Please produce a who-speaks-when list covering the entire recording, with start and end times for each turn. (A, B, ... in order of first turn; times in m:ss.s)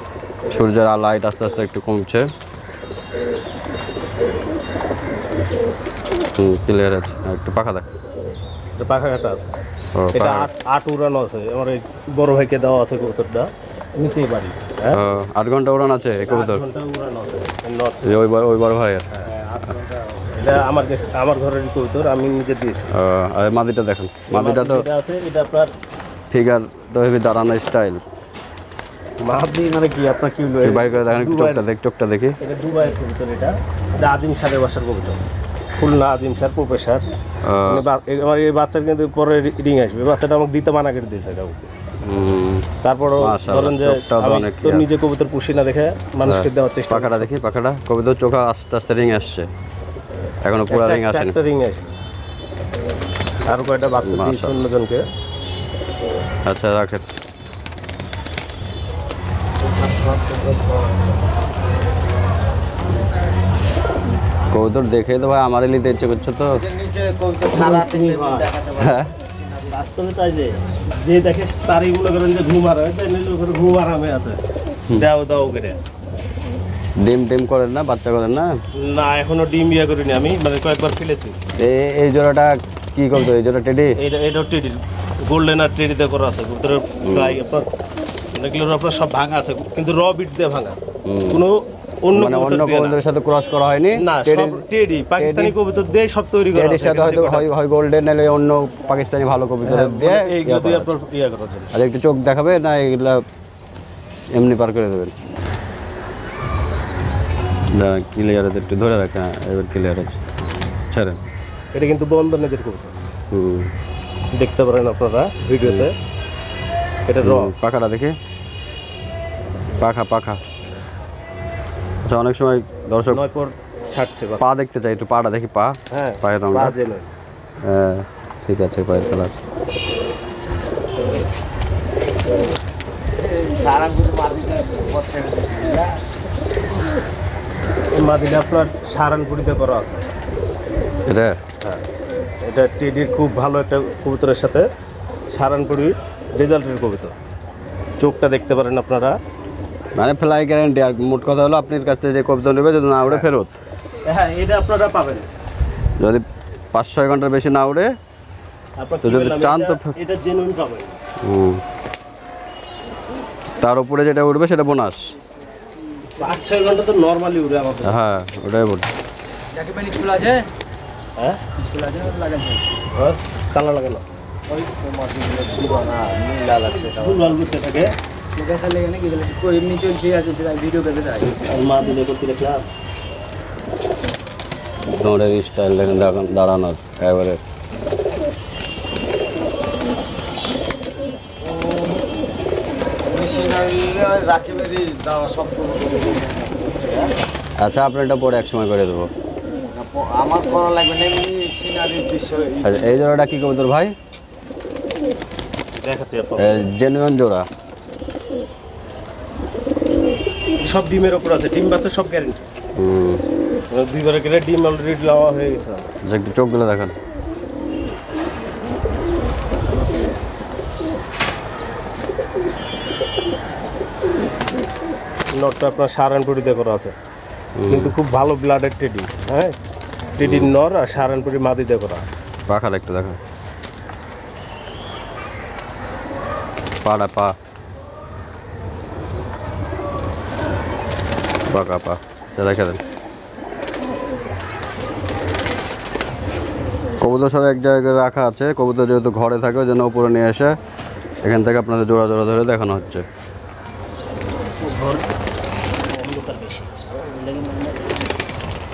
0:00.5-0:02.3 A
0:06.4-0:07.9 A
0:08.8-0:09.6 B
0:09.9-0:10.5 A
0:10.1-0:15.0 B
0:14.9-0:16.6 A
0:16.2-0:18.2 B
0:18.0-0:19.2 A
0:19.2-0:22.9 B
0:22.9-0:24.8 A
0:24.3-0:25.7 B
0:26.3-0:28.0 A
0:29.2-0:31.6 B
0:30.6-0:32.4 A
0:32.4-0:35.2 B
0:35.8-0:37.0 B
0:37.4-0:37.8 A
0:37.6-0:41.7 B
0:42.0-0:42.7 A
0:42.8-0:47.3 B
0:43.2-0:44.9 A
0:46.2-0:49.5 A
0:50.4-0:51.3 A
0:50.7-0:51.9 B
0:53.4-0:55.0 B
0:54.0-0:54.6 A
0:56.4-0:57.0 A
1:04.5-1:06.7 A
1:06.7-1:08.8 C
1:07.5-1:08.5 B
1:08.8-1:09.1 A
1:09.7-1:15.8 B
1:17.0-1:18.5 A
1:18.8-1:21.4 B
1:21.6-1:24.0 A
1:24.0-1:27.7 B
1:27.0-1:27.4 A
1:28.3-1:33.0 B
1:31.0-1:31.4 A
1:32.1-1:34.6 A
1:33.9-1:37.5 B
1:35.2-1:35.5 A
1:36.5-1:40.9 A
1:39.6-1:41.8 B
1:41.7-1:43.2 A
1:44.3-1:45.1 A
1:47.7-1:50.3 A
1:50.9-1:51.2 A
1:51.7-1:52.9 B
1:53.3-1:53.7 A
1:54.3-1:55.9 B
1:57.0-1:57.5 B
1:57.2-1:58.1 A
1:59.8-2:00.4 A
2:02.0-2:03.2 A
2:03.1-2:04.4 B
2:04.4-2:06.7 A
2:05.9-2:07.1 B
2:07.6-2:09.3 A
2:13.4-2:15.9 C
2:17.9-2:20.1 B
2:21.1-2:21.4 A
2:22.4-2:24.7 B
2:25.3-2:27.2 B
2:28.0-2:29.2 B
2:30.0-2:33.6 A
2:34.1-2:35.3 B
2:36.0-2:37.9 A
2:38.8-2:41.0 B
2:39.0-2:39.9 A
2:41.2-2:41.6 A
2:43.6-2:45.2 A
2:46.1-2:48.0 B
2:47.8-2:48.9 A
2:49.5-2:50.5 C
2:51.2-2:51.5 B
2:51.6-2:52.7 C
2:52.9-2:54.0 B
2:54.5-2:57.2 C
2:57.0-2:57.9 B
2:58.3-3:01.4 C
3:01.4-3:02.6 B
3:04.9-3:07.4 A
3:13.0-3:17.1 C
3:17.6-3:19.1 A
3:19.7-3:22.6 C
3:22.6-3:23.9 A
3:25.8-3:26.7 B
3:26.4-3:27.4 A
3:30.6-3:32.4 B
3:32.8-3:33.2 A
3:33.7-3:35.9 B
3:36.1-3:37.0 A
3:45.3-3:46.9 B
3:47.6-3:47.9 A
3:47.7-3:49.6 B
3:50.2-3:52.0 B
3:50.2-3:50.5 A
3:52.5-3:53.2 A
3:56.8-3:57.3 A
4:01.5-4:02.8 A
4:07.0-4:10.5 A
4:11.2-4:13.0 A
4:14.6-4:15.0 B
4:15.8-4:18.1 B